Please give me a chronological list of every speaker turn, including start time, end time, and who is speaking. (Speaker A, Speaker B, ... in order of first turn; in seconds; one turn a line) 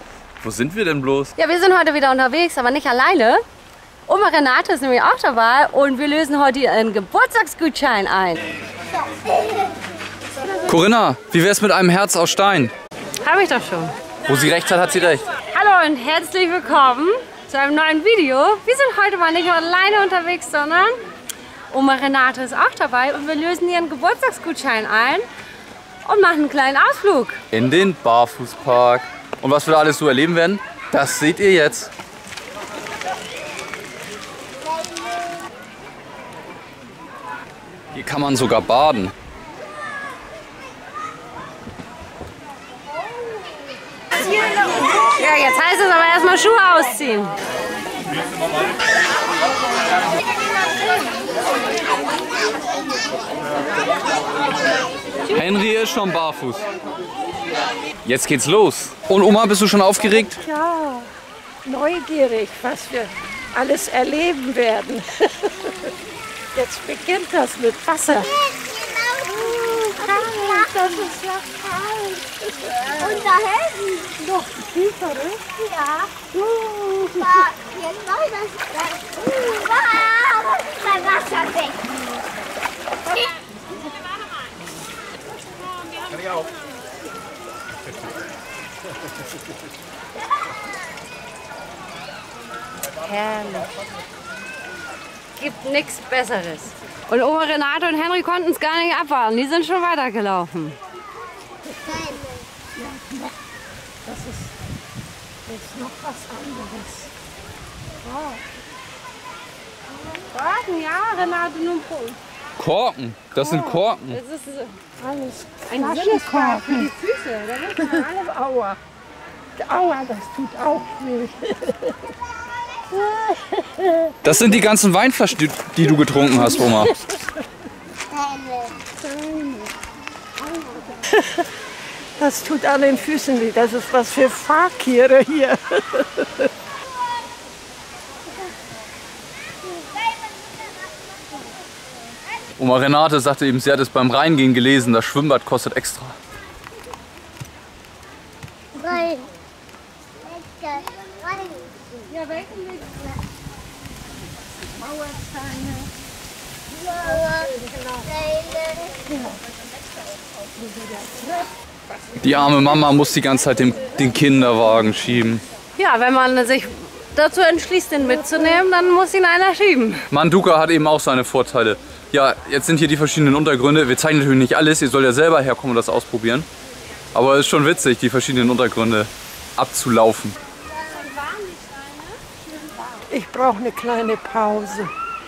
Speaker A: 0.4-1.3
Speaker B: 1.4-3.4
Speaker B: 4.1-8.4
Speaker A: 10.7-12.7
Speaker B: 13.2-13.9
Speaker A: 14.3-15.3
Speaker B: 15.5-21.0
Speaker B: 21.7-25.3
Speaker B: 26.0-27.4
Speaker A: 27.5-31.9
Speaker A: 37.9-39.1
Speaker B: 44.8-47.3
Speaker A: 55.3-56.6
Speaker A: 58.0-60.4
Speaker C: 60.4-61.1
Speaker C: 61.6-65.9
Speaker C: 66.5-68.4
Speaker D: 68.4-70.7
Speaker C: 69.4-73.3
Speaker D: 73.0-74.2
Speaker C: 74.1-75.5
Speaker D: 75.6-76.1
Speaker C: 76.3-77.5
Speaker D: 77.4-81.8
Speaker B: 93.0-93.7
Speaker B: 95.4-100.8
Speaker C: 102.8-103.3
Speaker C: 104.0-104.5
Speaker C: 105.5-107.1
Speaker C: 108.0-108.4
Speaker B: 110.2-112.2
Speaker A: 112.6-114.2
Speaker C: 113.4-113.8
Speaker B: 114.1-114.7
Speaker C: 115.0-116.9
Speaker B: 115.7-118.1
Speaker C: 117.8-118.8
Speaker C: 119.6-122.0
Speaker C: 122.9-124.2
Speaker A: 124.2-126.9
Speaker C: 126.4-127.3
Speaker D: 128.2-128.7
Speaker C: 129.0-129.7
Speaker C: 130.9-131.5
Speaker C: 132.2-136.5
Speaker A: 142.6-146.2
Speaker D: 148.9-149.3
Speaker D: 150.3-151.8
Speaker B: 152.1-152.9
Speaker C: 155.1-155.6
Speaker C: 156.8-158.2
Speaker D: 158.2-158.9
Speaker C: 160.7-161.4
Speaker A: 162.2-165.4
Speaker B: 165.8-170.1
Speaker A: 170.1-176.5
Speaker A: 177.1-180.3
Speaker B: 180.7-182.2
Speaker C: 183.1-184.9